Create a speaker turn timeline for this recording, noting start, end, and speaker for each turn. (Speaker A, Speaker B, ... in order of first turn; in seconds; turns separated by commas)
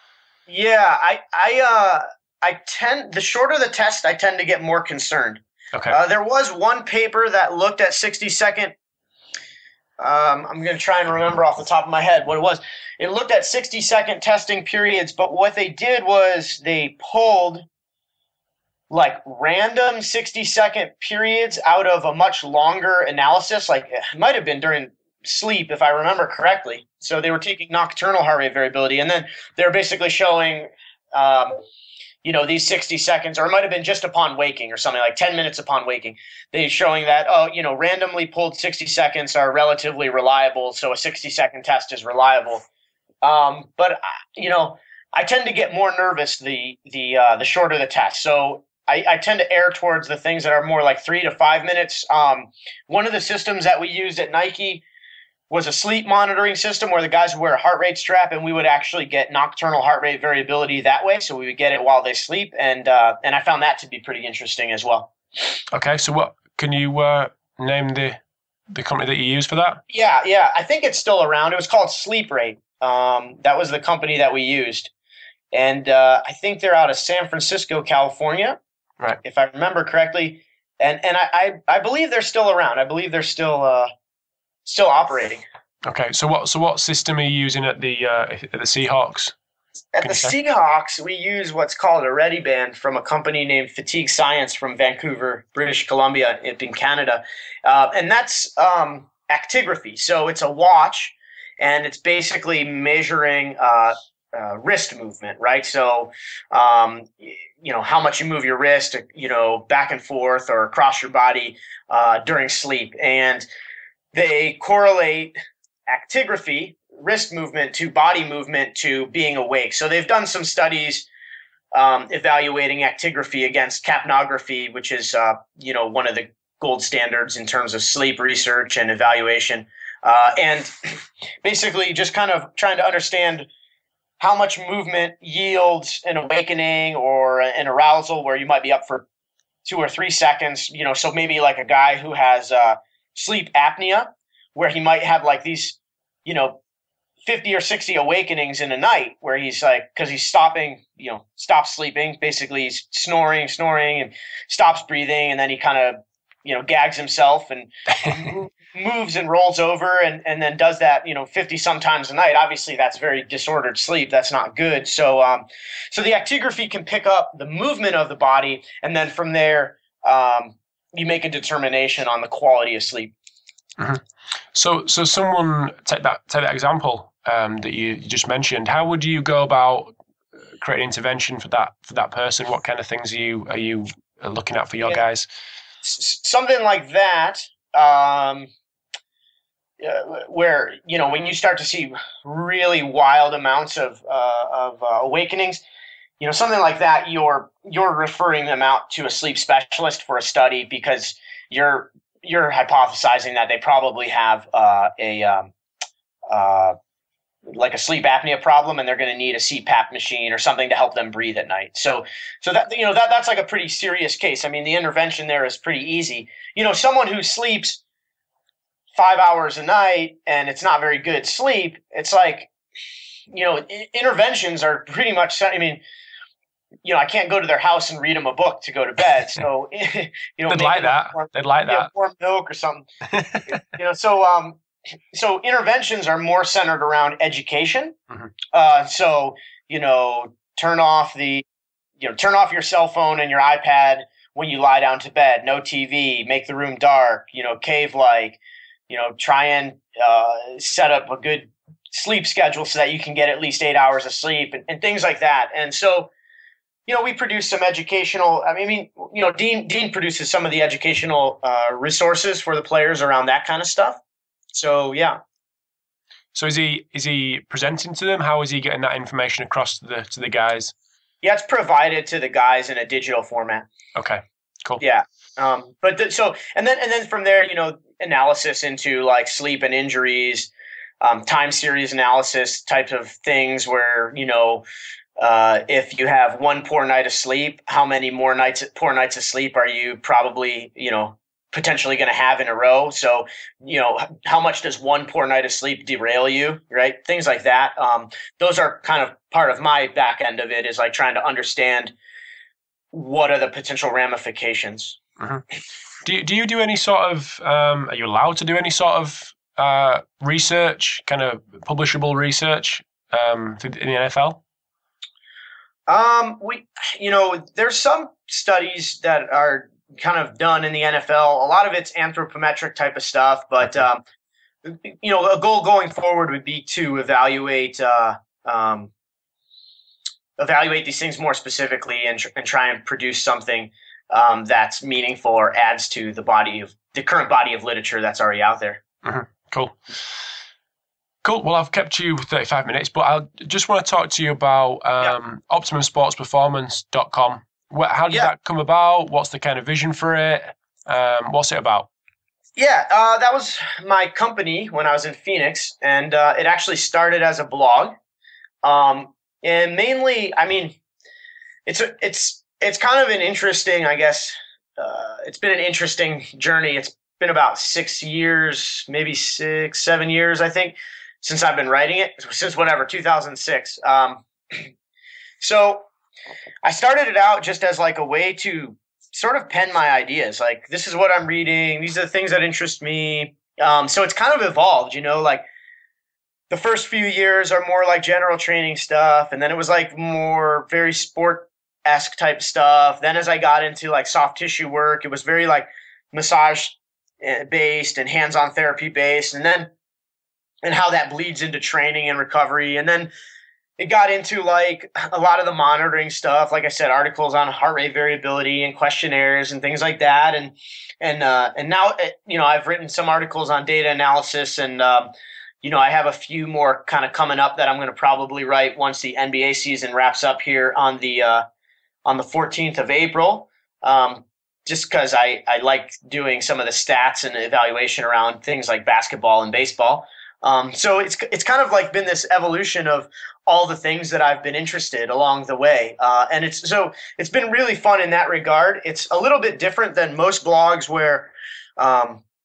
Speaker A: 0.5-8.7, Speaker A: 10.0-17.6, Speaker A: 18.9-31.5, Speaker A: 32.2-42.6, Speaker A: 43.2-54.8, Speaker A: 55.5-65.1, Speaker B: 65.7-68.2, Speaker B: 68.7-69.8, Speaker A: 69.9-74.9, Speaker A: 75.5-78.6, Speaker A: 79.2-83.9, Speaker A: 84.7-85.4, Speaker B: 85.8-89.3, Speaker A: 89.9-113.5, Speaker B: 90.0-90.3, Speaker A: 114.1-115.3, Speaker A: 115.9-121.1, Speaker A: 121.7-130.7, Speaker A: 131.4-133.5, Speaker A: 134.2-139.1, Speaker A: 139.6-146.6, Speaker A: 147.2-173.1, Speaker B: 174.5-179.9, Speaker B: 180.6-185.3, Speaker A: 185.8-188.5, Speaker A: 189.8-195.6, Speaker A: 196.2-205.5, Speaker A: 206.3-206.8, Speaker A: 207.4-217.8, Speaker A: 218.9-222.5, Speaker A: 223.3-225.8, Speaker A: 226.8-232.8, Speaker B: 230.5-231.9, Speaker B: 233.1-233.6, Speaker A: 233.5-237.9, Speaker A: 238.5-241.4, Speaker A: 242.0-256.1, Speaker A: 256.9-264.0, Speaker A: 264.5-265.2, Speaker B: 266.3-270.7, Speaker A: 271.2-273.7, Speaker B: 273.9-274.8, Speaker A: 274.8-280.5, Speaker A: 281.0-284.6, Speaker A: 285.2-301.9, Speaker A: 302.9-305.0, Speaker B: 306.0-314.4, Speaker A: 315.9-324.0, Speaker A: 324.6-328.9, Speaker A: 330.4-338.8, Speaker B: 339.0-339.8, Speaker B: 341.2-351.9, Speaker A: 352.6-357.9, Speaker A: 358.6-360.8, Speaker A: 361.6-374.7, Speaker A: 375.4-375.9, Speaker A: 376.6-385.4, Speaker A: 386.5-399.7, Speaker A: 400.6-403.1, Speaker A: 403.8-415.1, Speaker A: 415.6-421.4, Speaker A: 422.1-442.2